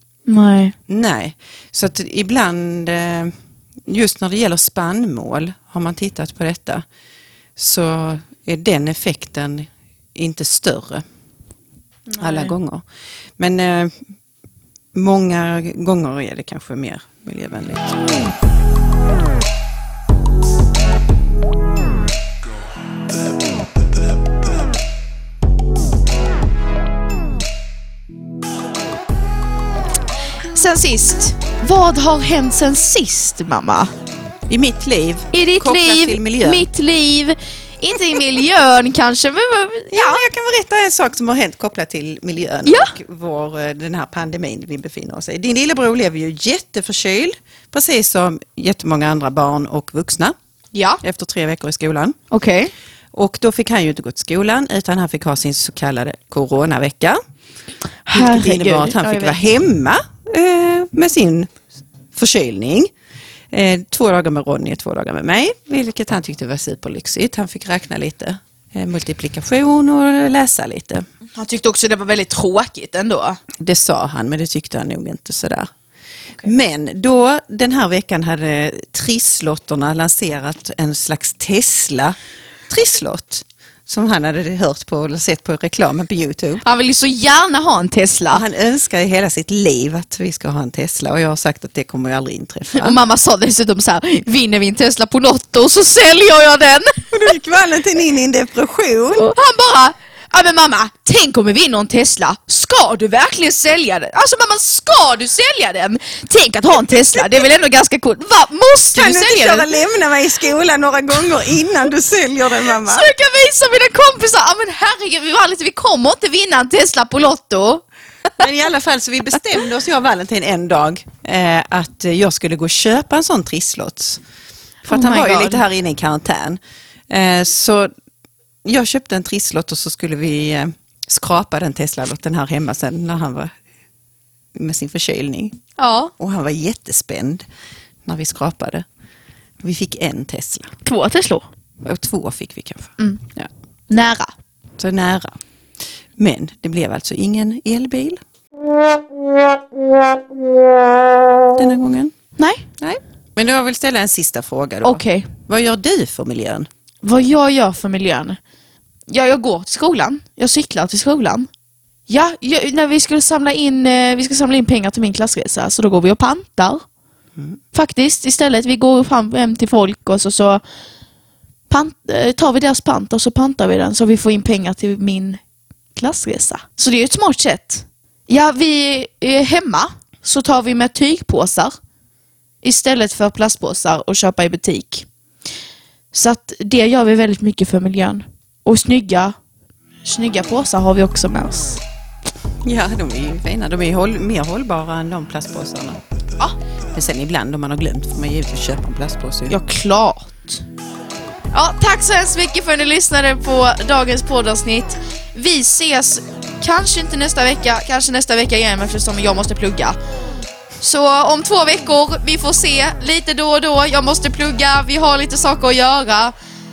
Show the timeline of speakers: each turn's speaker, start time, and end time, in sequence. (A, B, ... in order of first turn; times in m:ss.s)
0:00.3-0:00.7 A
0:00.9-0:03.3 B
0:03.9-0:06.8 B
0:07.6-0:11.0 B
0:12.1-0:12.5 A
0:12.2-0:12.8 B
0:13.4-0:13.9 B
0:14.9-0:18.0 B
0:30.5-0:33.9 A
0:34.5-0:36.6 B
0:35.3-0:40.2 A
0:39.9-0:50.3 B
0:42.6-0:42.9 A
0:50.7-0:51.0 A
0:51.0-0:52.1 B
0:52.3-0:52.7 A
0:53.1-0:57.2 B
0:58.1-0:59.4 A
0:58.1-1:01.5 B
1:02.1-1:02.9 B
1:03.5-1:11.0 B
1:11.4-1:13.4 A
1:13.6-1:15.7 B
1:16.4-1:22.1 B
1:22.7-1:26.6 B
1:26.6-1:28.4 A
1:28.3-1:33.0 B
1:32.8-1:37.1 A
1:37.1-1:39.3 B
1:39.1-1:49.7 A
1:48.9-1:53.1 B
1:52.6-1:57.8 A
1:58.4-2:04.2 B
2:04.8-2:07.9 B
2:04.9-2:05.6 A
2:08.6-2:13.5 B
2:14.5-2:15.6 B
2:15.8-2:16.1 A
2:16.2-2:17.4 B
2:18.0-2:18.8 B
2:19.6-2:20.7 B
2:20.8-2:21.4 A
2:21.8-2:23.5 B
2:23.0-2:23.2 A
2:23.9-2:24.3 A
2:24.8-2:25.4 B
2:26.2-2:28.2 B
2:31.6-2:32.1 B
2:32.4-2:32.6 A
2:32.8-2:36.7 B
2:34.8-2:35.3 A
2:37.0-2:38.4 A
2:39.1-2:41.5 A
2:42.1-2:46.8 A
2:47.7-2:50.6 A
2:51.7-2:55.4 A
2:56.0-3:01.7 A
3:02.6-3:05.1 A
3:06.1-3:09.3 A
3:10.0-3:11.8 A
3:12.6-3:16.0 B
3:16.9-3:19.6 B
3:19.5-3:20.6 A
3:21.5-3:30.0 A
3:30.8-3:36.3 A